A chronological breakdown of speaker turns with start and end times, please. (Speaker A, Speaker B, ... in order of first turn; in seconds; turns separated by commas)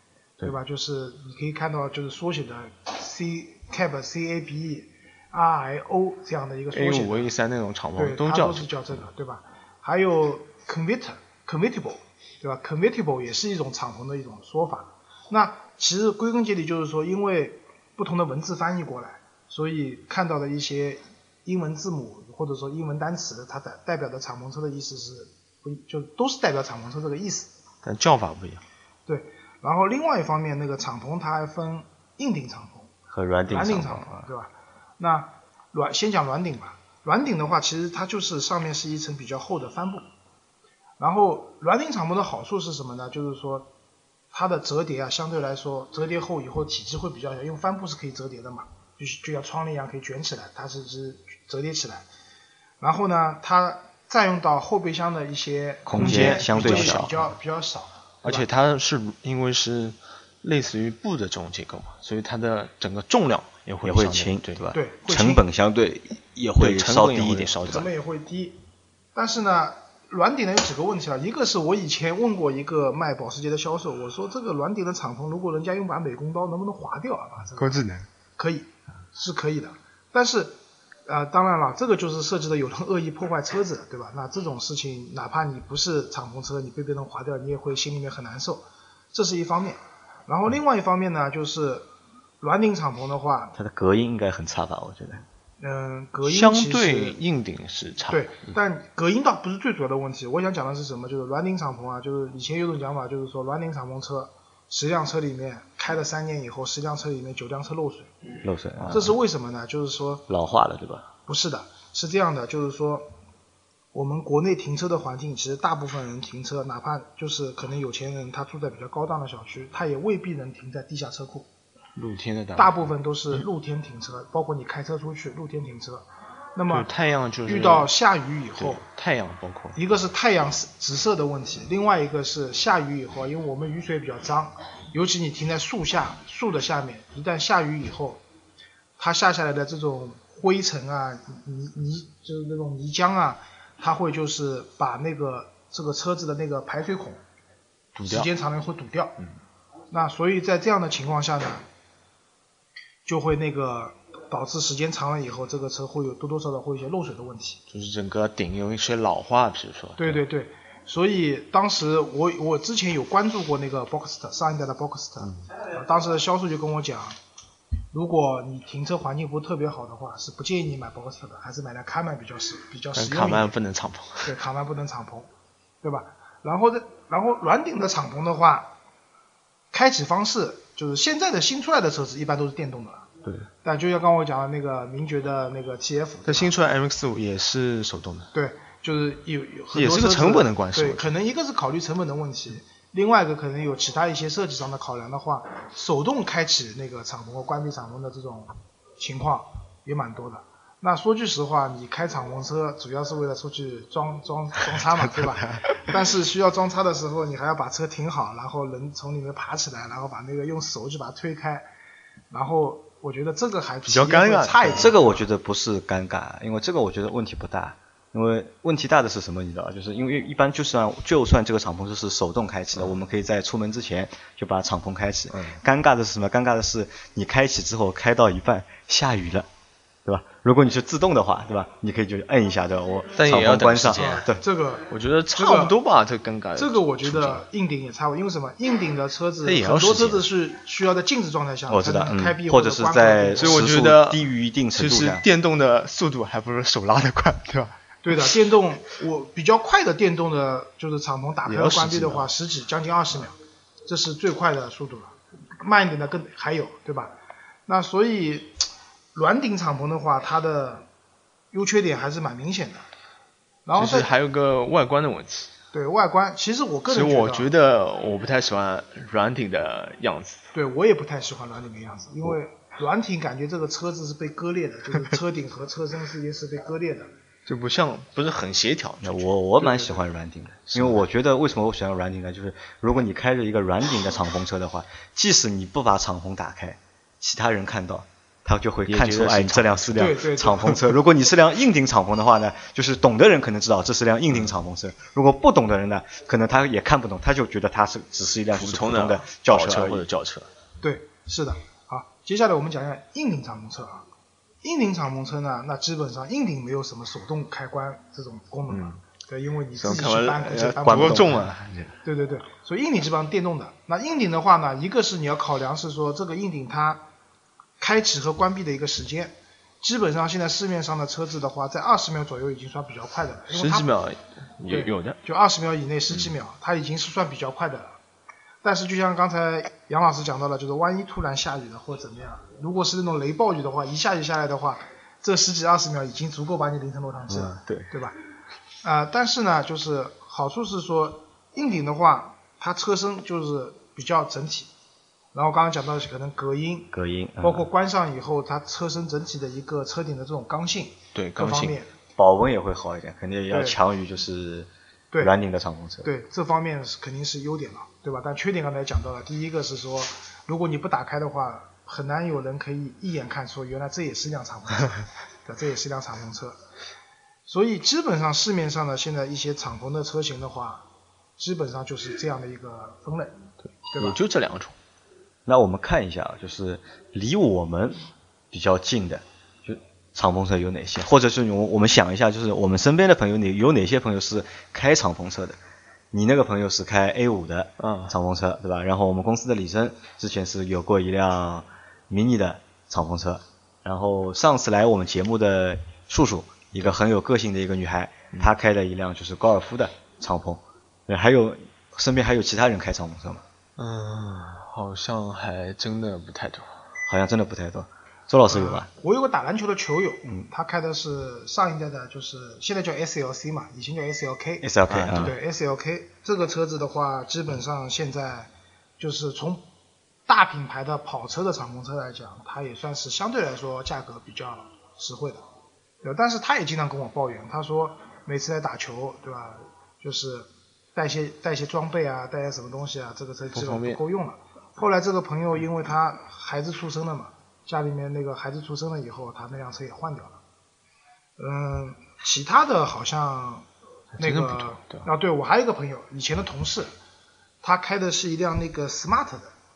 Speaker A: 0.4-7.3, Speaker B: 6.7-8.9, Speaker A: 8.0-27.5, Speaker B: 27.8-28.6, Speaker A: 29.1-32.9, Speaker C: 33.1-34.3, Speaker A: 33.5-40.1, Speaker A: 41.0-43.7, Speaker A: 44.3-52.1, Speaker A: 52.8-58.5, Speaker C: 55.9-57.1, Speaker B: 55.9-57.3, Speaker B: 58.2-64.6, Speaker C: 63.8-67.7, Speaker A: 64.7-65.4, Speaker B: 66.6-67.9, Speaker A: 67.7-68.6, Speaker A: 69.1-91.9, Speaker B: 77.6-78.1, Speaker A: 92.4-93.5, Speaker C: 93.5-95.2, Speaker A: 95.6-97.2, Speaker B: 96.2-98.3, Speaker A: 98.1-108.1, Speaker C: 108.4-109.1, Speaker A: 108.9-110.2, Speaker C: 110.3-111.1, Speaker A: 111.3-113.0, Speaker A: 113.9-121.5, Speaker B: 122.0-122.8, Speaker A: 122.5-126.9, Speaker B: 126.7-127.9, Speaker A: 127.5-128.8, Speaker B: 128.6-129.8, Speaker A: 129.7-138.2, Speaker A: 139.0-147.2, Speaker B: 147.9-148.3, Speaker A: 148.0-149.2, Speaker A: 149.9-151.6, Speaker A: 153.1-157.6, Speaker B: 157.7-160.2, Speaker A: 160.0-167.2, Speaker A: 167.9-173.5, Speaker B: 172.9-174.3, Speaker A: 174.2-175.3, Speaker A: 175.8-178.7, Speaker A: 179.7-183.1, Speaker A: 183.6-186.5, Speaker B: 186.2-188.3, Speaker A: 188.3-211.6, Speaker B: 189.7-191.1, Speaker A: 212.3-215.2, Speaker B: 213.8-214.9, Speaker C: 214.7-229.5, Speaker C: 230.0-234.4, Speaker B: 233.2-234.2, Speaker A: 233.9-235.7, Speaker B: 234.9-237.4, Speaker A: 236.6-243.6, Speaker B: 239.4-240.3, Speaker C: 241.7-245.2, Speaker B: 243.3-248.3, Speaker A: 248.0-257.1, Speaker B: 251.4-252.3, Speaker A: 257.7-260.9, Speaker A: 261.5-262.9, Speaker A: 263.6-264.1, Speaker B: 263.7-265.5, Speaker A: 265.7-267.5, Speaker B: 266.9-270.4, Speaker A: 270.5-277.1, Speaker B: 277.5-279.3, Speaker C: 279.0-300.0, Speaker A: 279.6-280.0, Speaker B: 280.7-281.0, Speaker B: 288.9-290.1, Speaker A: 289.9-290.9, Speaker B: 298.5-300.5, Speaker A: 300.8-304.0, Speaker A: 304.6-311.4, Speaker B: 308.7-309.0, Speaker B: 309.8-311.9, Speaker C: 310.8-311.7, Speaker A: 312.0-317.0, Speaker A: 317.8-323.9, Speaker B: 323.5-325.2, Speaker A: 324.7-328.0, Speaker A: 328.6-338.1, Speaker B: 337.4-337.9, Speaker A: 338.8-344.7, Speaker A: 345.3-351.9, Speaker C: 346.9-347.6, Speaker B: 351.1-351.8, Speaker C: 352.1-356.1, Speaker A: 353.5-353.8, Speaker A: 356.0-366.6, Speaker A: 367.4-370.8, Speaker A: 371.4-373.4, Speaker B: 373.8-374.7, Speaker A: 373.9-374.2, Speaker C: 375.4-378.0, Speaker C: 378.5-385.6, Speaker C: 386.1-403.4, Speaker B: 387.8-388.1, Speaker B: 403.8-406.7, Speaker C: 407.1-408.9, Speaker A: 408.5-419.6, Speaker C: 414.6-415.3, Speaker B: 414.9-415.3, Speaker A: 420.3-425.4, Speaker A: 426.0-440.4, Speaker B: 433.5-434.0, Speaker A: 441.4-443.7, Speaker B: 444.2-445.1, Speaker A: 444.2-446.9, Speaker A: 447.6-449.5